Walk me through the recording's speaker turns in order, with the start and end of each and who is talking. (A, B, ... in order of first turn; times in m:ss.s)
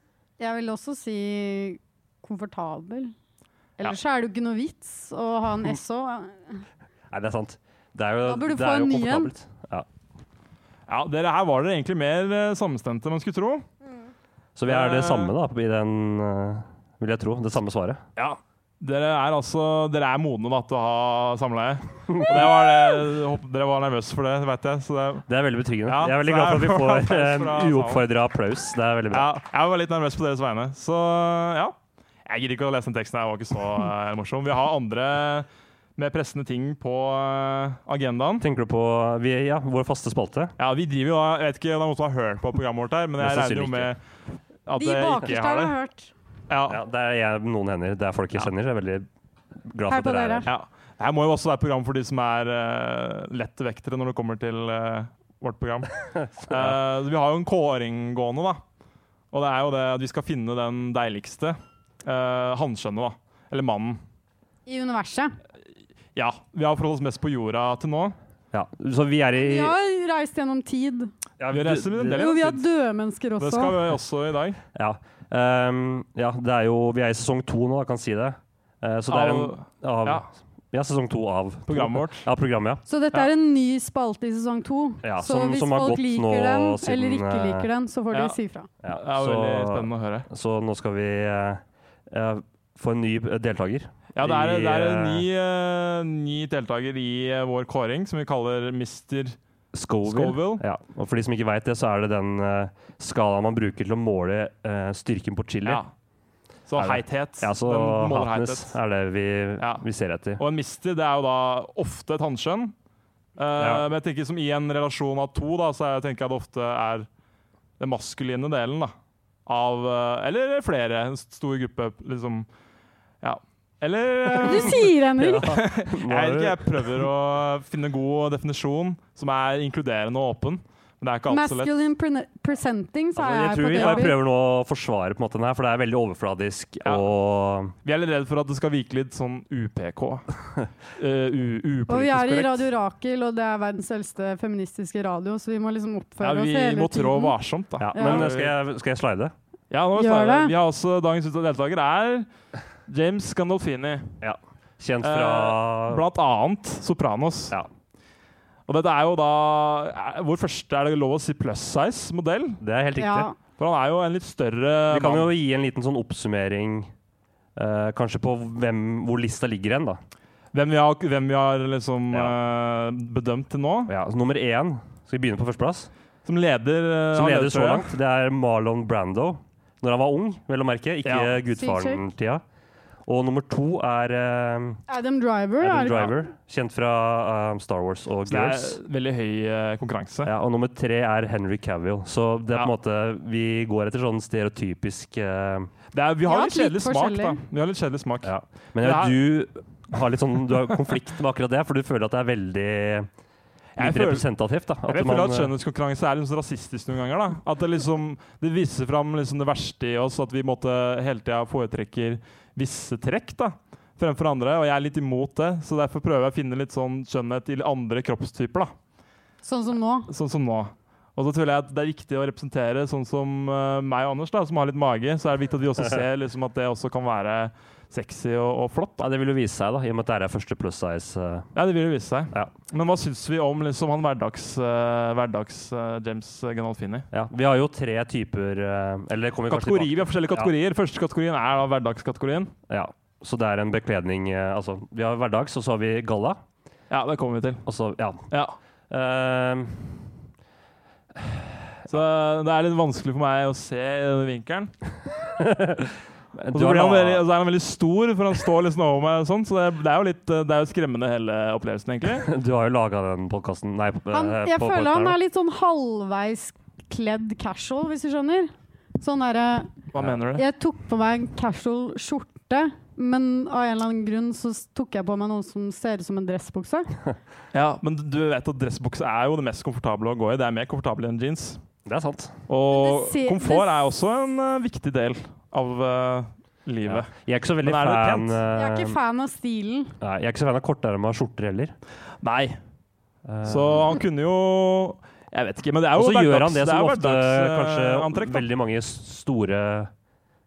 0:00.4-0:03.1 A
0:03.8-0:06.6 A
0:07.1-0:09.9 B
0:08.2-0:09.3 A
0:10.9-0:13.6 C
0:14.6-0:18.0 B
0:14.7-0:15.3 C
0:18.2-0:25.2 C
0:25.3-0:29.3 B
0:25.9-0:28.0 C
0:29.1-0:31.7 C
0:32.2-0:38.4 C
0:38.4-0:40.5 B
0:40.6-0:44.0 C
0:43.2-0:43.9 B
0:44.6-0:45.7 C
0:44.7-0:46.1 A
0:46.5-0:46.8 C
0:46.7-0:49.1 B
0:49.6-0:50.5 B
0:49.9-0:50.5 A
0:50.4-0:55.9 C
0:56.1-0:56.8 B
0:56.5-0:58.6 C
0:59.3-1:04.0 C
1:04.6-1:05.4 A
1:06.1-1:08.1 C
1:08.5-1:09.7 B
1:09.4-1:11.1 A
1:11.4-1:12.2 B
1:11.5-1:12.6 C
1:12.1-1:13.8 A
1:13.4-1:14.6 C
1:14.7-1:22.8 B
1:19.1-1:20.2 C
1:21.7-1:22.3 C
1:22.9-1:28.7 A
1:25.0-1:27.7 B
1:28.8-1:35.3 B
1:28.9-1:30.3 C
1:34.1-1:39.4 C
1:39.7-1:45.8 B
1:40.0-1:40.6 C
1:45.6-1:45.9 C
1:46.7-1:48.8 C
1:46.8-1:50.4 B
1:49.6-1:49.8 C
1:50.4-1:52.7 C
1:53.4-1:57.1 C
1:53.6-1:53.8 B
1:57.8-1:58.9 C
1:59.4-2:02.5 C
2:03.2-2:11.7 C
2:04.3-2:05.6 A
2:05.2-2:07.0 B
2:11.3-2:14.2 A
2:13.2-2:17.7 B
2:13.7-2:14.1 C
2:17.8-2:20.3 C
2:20.9-2:22.7 C
2:21.9-2:27.3 A
2:26.2-2:28.6 C
2:27.8-2:29.3 B
2:27.9-2:28.3 A
2:29.7-2:32.3 C
2:29.9-2:30.5 A
2:32.9-2:34.1 C
2:34.2-2:36.0 B
2:35.0-2:37.5 C
2:38.7-2:42.6 C
2:42.6-2:43.3 B
2:43.0-2:43.3 A
2:43.6-2:45.3 C
2:44.9-2:46.9 B
2:47.6-2:50.0 B
2:50.5-2:53.9 C
2:53.9-2:55.9 B
2:56.2-2:57.9 C
2:57.1-3:02.4 B
3:01.0-3:01.4 C
3:01.6-3:02.0 A
3:03.0-3:04.8 B
3:04.9-3:06.1 A
3:05.6-3:08.8 B
3:08.3-3:10.3 C
3:10.2-3:15.7 B
3:15.9-3:19.2 C
3:16.3-3:17.4 A
3:18.2-3:23.1 B
3:23.8-3:24.3 C
3:23.8-3:25.5 B
3:24.8-3:38.7 C
3:39.4-3:40.1 A
3:40.1-3:49.0 C
3:49.0-3:51.5 B
3:51.5-3:57.1 C
3:57.1-4:00.5 B
3:59.5-4:02.5 C
4:02.7-4:06.4 B
4:06.9-4:07.6 C
4:07.6-4:08.2 B
4:08.9-4:10.1 B
4:11.2-4:11.8 B
4:11.9-4:14.7 C
4:15.4-4:17.2 B
4:16.5-4:22.3 C
4:22.2-4:25.2 B
4:24.1-4:29.8 A
4:29.9-4:30.4 C
4:30.3-4:36.9 A
4:37.5-4:41.6 C
4:41.8-4:42.3 B
4:42.5-4:47.1 C
4:42.7-4:43.9 A
4:46.8-4:49.0 B
4:47.6-4:48.4 C
4:48.6-4:49.9 A
4:50.0-4:51.7 B
4:52.2-4:52.6 C
4:53.2-4:53.9 B
4:53.4-4:58.5 C
4:55.9-4:59.9 B